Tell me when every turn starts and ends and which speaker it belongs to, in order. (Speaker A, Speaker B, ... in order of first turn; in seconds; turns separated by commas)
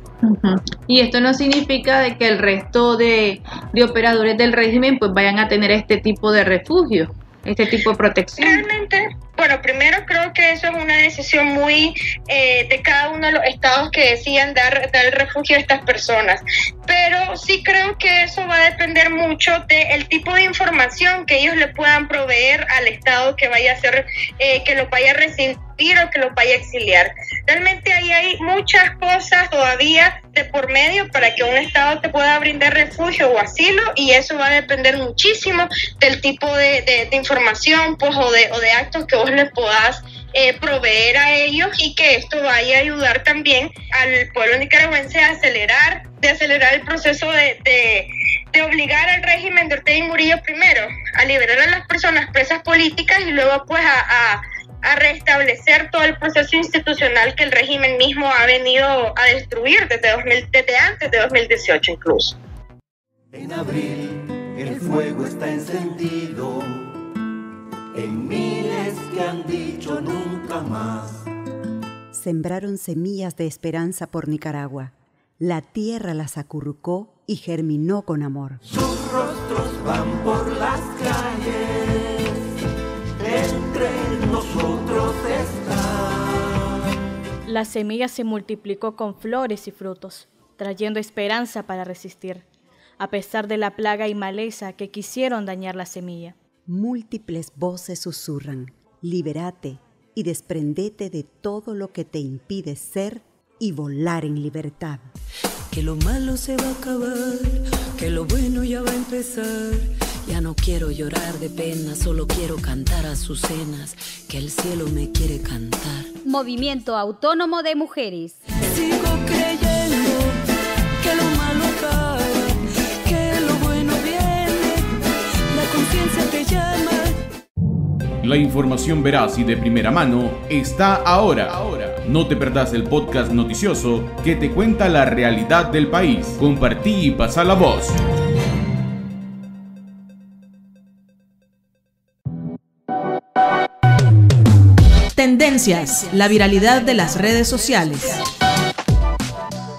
Speaker A: 0.2-8.4, Speaker B: 8.4-62.4, Speaker C: 63.3-66.5, Speaker C: 68.0-71.0, Speaker D: 72.1-78.6, Speaker C: 78.9-81.4, Speaker C: 83.2-85.7, Speaker E: 87.5-92.4, Speaker E: 93.0-96.3, Speaker D: 96.7-105.0, Speaker F: 105.7-116.1, Speaker G: 116.2-118.4, Speaker F: 118.7-120.3, Speaker F: 121.0-124.9, Speaker F: 125.5-127.2, Speaker H: 128.2-138.0, Speaker I: 145.2-148.2